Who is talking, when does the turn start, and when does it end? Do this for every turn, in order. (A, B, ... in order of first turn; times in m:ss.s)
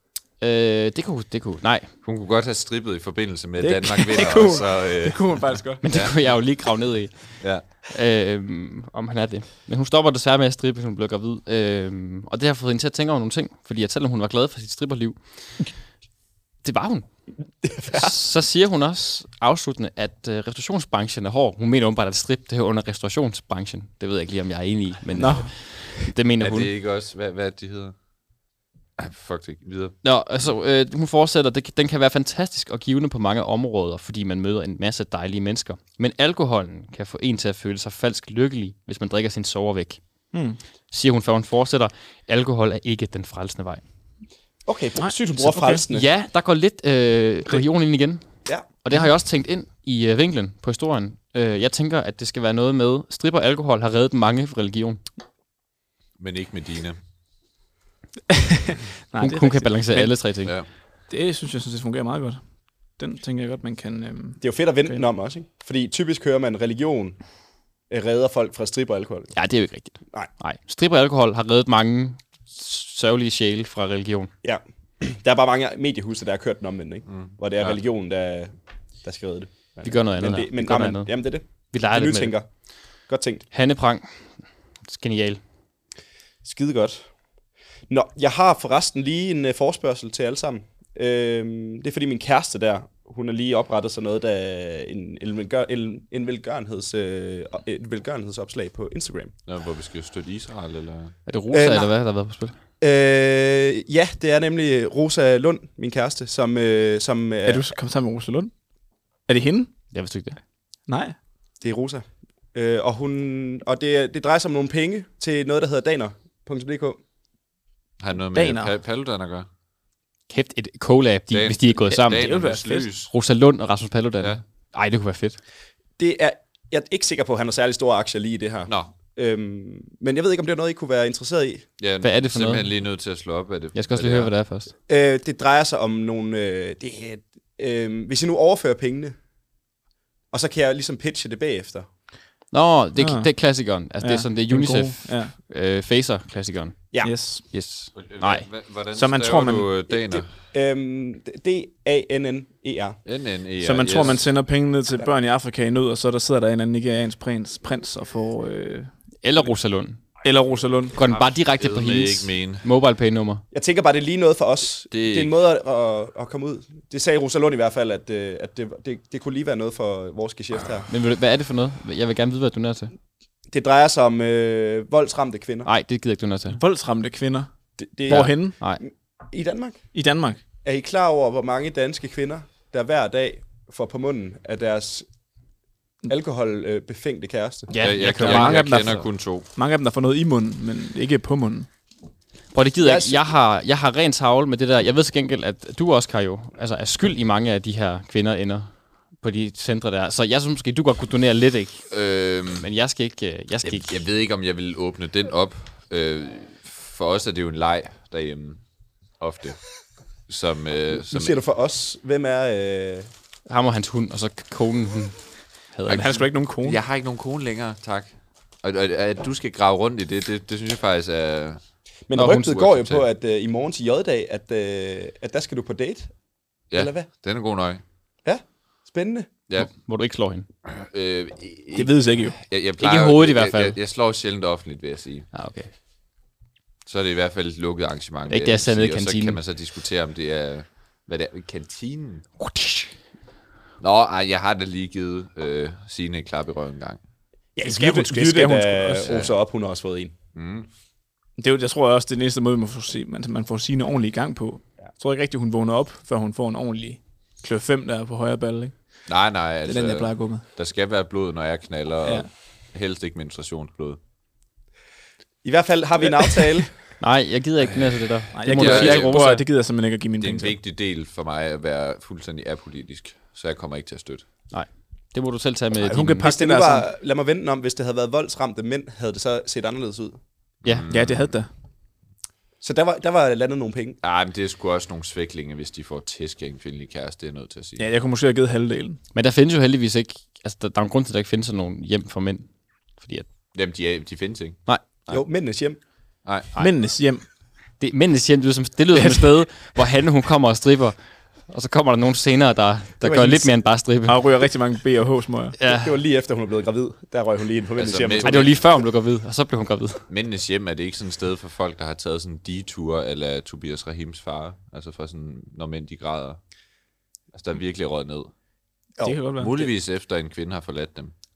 0:00.4-0:01.9 A
0:02.0-0:06.2 B
0:03.6-0:05.8 C
0:05.8-0:15.8 A
0:07.4-0:07.7 B
0:16.6-0:26.7 A
0:17.6-0:18.2 D
0:25.2-0:25.8 C
0:26.4-0:28.0 B
0:29.0-0:30.0 B
0:30.0-0:40.0 A
0:40.3-0:40.6 C
0:40.9-0:43.8 A
0:44.7-0:46.1 D
0:45.0-0:45.8 C
0:45.4-0:55.0 A
0:56.2-0:57.0 B
0:58.4-1:00.3 C
0:59.2-1:00.5 A
1:01.1-1:05.0 C
1:04.4-1:07.2 D
1:07.9-1:09.3 D
1:09.3-1:14.3 A
1:14.4-1:22.5 D
1:17.1-1:17.8 B
1:19.8-1:22.4 A
1:23.1-1:23.5 D
1:23.5-1:25.4 A
1:26.4-1:27.1 D
1:27.9-1:39.3 D
1:39.5-1:41.2 B
1:41.3-1:42.6 A
1:41.5-1:41.9 D
1:42.8-1:47.7 D
1:47.5-1:48.5 C
1:49.3-1:49.7 C
1:49.9-1:50.4 A
1:50.9-1:51.2 C
1:51.6-1:57.0 D
1:58.0-1:59.5 B
1:58.3-1:58.7 C
2:00.3-2:02.3 A
2:01.3-2:03.1 B
2:01.9-2:02.9 C
2:03.1-2:05.4 A
2:06.0-2:11.7 D
2:11.8-2:14.3 B
2:12.0-2:12.7 A
2:13.7-2:14.7 A
2:14.9-2:19.2 D
2:20.3-2:21.9 D
2:22.5-2:28.5 A
2:23.0-2:23.3 C
2:24.0-2:25.3 C
2:27.0-2:27.4 C
2:28.0-2:30.3 B
2:28.9-2:29.7 C
2:29.9-2:33.0 D
2:33.0-2:34.2 B
2:33.6-2:38.9 C
2:39.2-2:40.0 A
2:40.2-2:41.0 C
2:40.9-2:43.4 A
2:41.1-2:42.6 B
2:43.5-2:50.9 D
2:44.9-2:45.3 B
2:50.9-2:52.9 A
2:53.5-2:55.7 D
2:55.7-2:56.6 A
2:56.5-2:57.5 C
2:57.8-2:59.9 D
2:58.1-2:58.6 C
2:58.1-2:58.8 A
2:59.9-3:00.4 C
3:00.6-3:05.1 D
3:06.1-3:07.7 D
3:07.7-3:09.0 A
3:07.8-3:09.5 B
3:07.8-3:11.7 C
3:12.5-3:21.9 A
3:12.8-3:13.3 D
3:21.9-3:22.6 B
3:22.5-3:24.0 A
3:23.6-3:28.6 B
3:29.2-3:29.6 B
3:30.3-3:31.4 B
3:30.9-3:33.1 D
3:33.5-3:36.2 A
3:35.9-3:36.8 C
3:36.6-3:41.6 B
3:42.1-3:46.1 D
3:42.2-3:42.5 A
3:42.4-3:43.0 B
3:46.7-3:47.8 B
3:46.7-3:47.1 D
3:48.2-3:49.3 D
3:49.6-3:50.5 A
3:50.7-3:55.3 B
3:51.7-3:52.4 C
3:52.8-3:53.8 A
3:55.3-3:55.7 A
3:56.9-4:02.3 B
3:58.3-3:59.4 A
4:02.4-4:02.9 A
4:03.8-4:07.0 B
4:07.6-4:10.1 D
4:07.6-4:09.1 C
4:09.1-4:09.3 B
4:10.4-4:10.7 B
4:11.4-4:18.8 C
4:19.1-4:24.0 B
4:19.7-4:20.4 C
4:25.4-4:26.7 D
4:27.0-4:29.4 A
4:28.4-4:30.5 C
4:28.4-4:29.4 B
4:30.2-4:34.2 B
4:34.5-4:36.3 A
4:35.8-4:36.9 C
4:36.2-4:40.2 D
4:40.6-4:41.3 B
4:40.9-4:41.5 C
4:42.6-4:44.0 D
4:44.0-4:47.8 B
4:47.8-4:49.0 C
4:49.1-4:53.3 A
4:53.5-4:55.2 B
4:55.1-4:55.8 D
4:56.2-4:56.5 B
4:56.6-4:57.2 C
4:57.8-5:04.2 A
4:58.9-4:59.4 C
5:03.0-5:03.7 D
5:04.1-5:05.6 C
5:05.6-5:05.9 A
5:05.7-5:08.6 D
5:07.8-5:08.5 B
5:08.2-5:10.0 A
5:10.1-5:16.4 B
5:17.3-5:18.3 B
5:19.0-5:19.7 C
5:19.4-5:21.1 B